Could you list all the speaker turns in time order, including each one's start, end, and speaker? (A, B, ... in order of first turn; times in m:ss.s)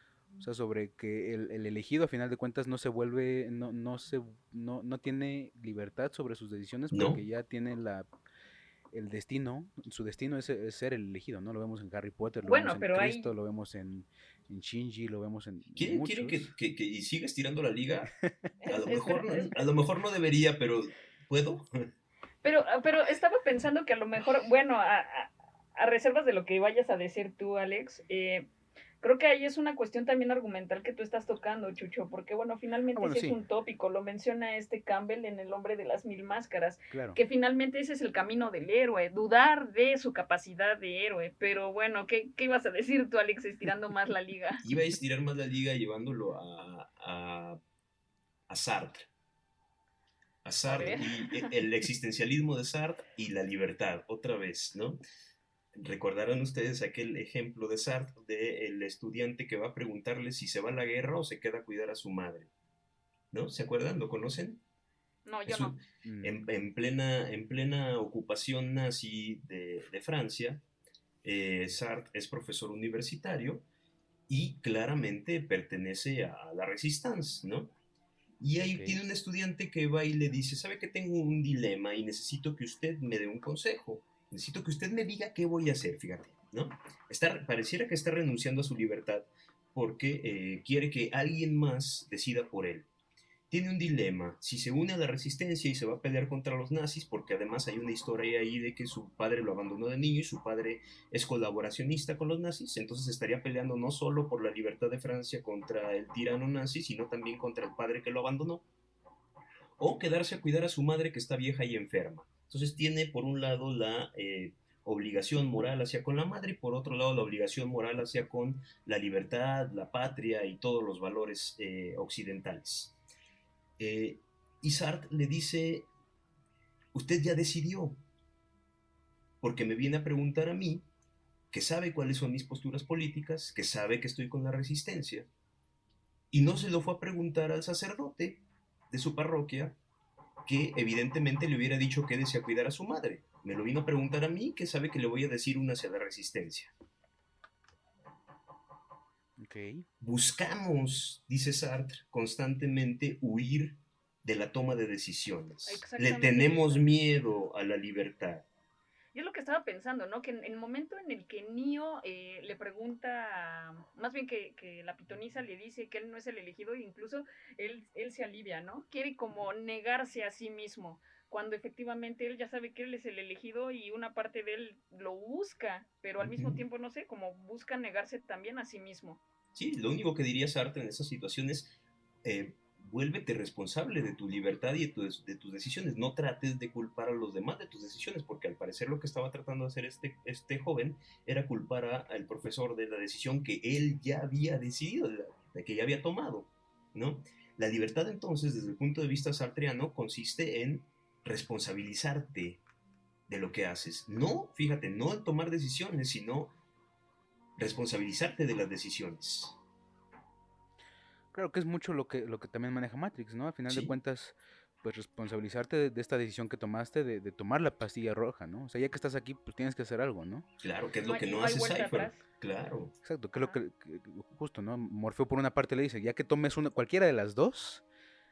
0:00.4-0:08.1 A
0:06.9-0:07.2 B
0:08.9-0:16.5 A
0:12.4-0:13.3 C
0:15.8-0:18.1 B
0:18.2-0:18.5 A
0:18.6-0:19.6 C
0:18.7-0:21.9 B
0:22.4-0:28.5 C
0:29.0-0:44.6 C
0:33.0-0:33.4 A
0:36.9-0:37.2 A
0:44.6-0:47.6 B
0:48.5-0:49.1 B
0:50.4-0:55.0 B
0:50.6-0:51.6 C
0:55.8-1:02.5 B
1:03.3-1:04.6 B
1:05.3-1:05.8 C
1:05.5-1:10.6 B
1:06.0-1:06.4 A
1:11.2-1:13.6 B
1:14.3-1:17.7 B
1:18.4-1:32.9 B
1:18.6-1:19.0 A
1:33.5-1:48.6 B
1:49.8-2:03.0 B
2:03.8-2:05.9 B
2:06.9-2:08.0 B
2:09.4-2:10.9 B
2:11.5-2:15.3 B
2:16.3-2:19.8 B
2:20.4-2:26.7 B
2:29.4-2:29.9 A
2:30.0-2:38.5 B
2:35.6-2:36.9 C
2:39.1-2:59.2 C
2:56.2-2:56.6 B
2:59.6-3:22.6 B
3:23.3-3:26.5 B
3:27.6-3:29.6 B
3:31.3-3:40.5 A
3:40.6-3:42.9 B
3:41.0-3:42.2 C
3:43.0-3:47.8 A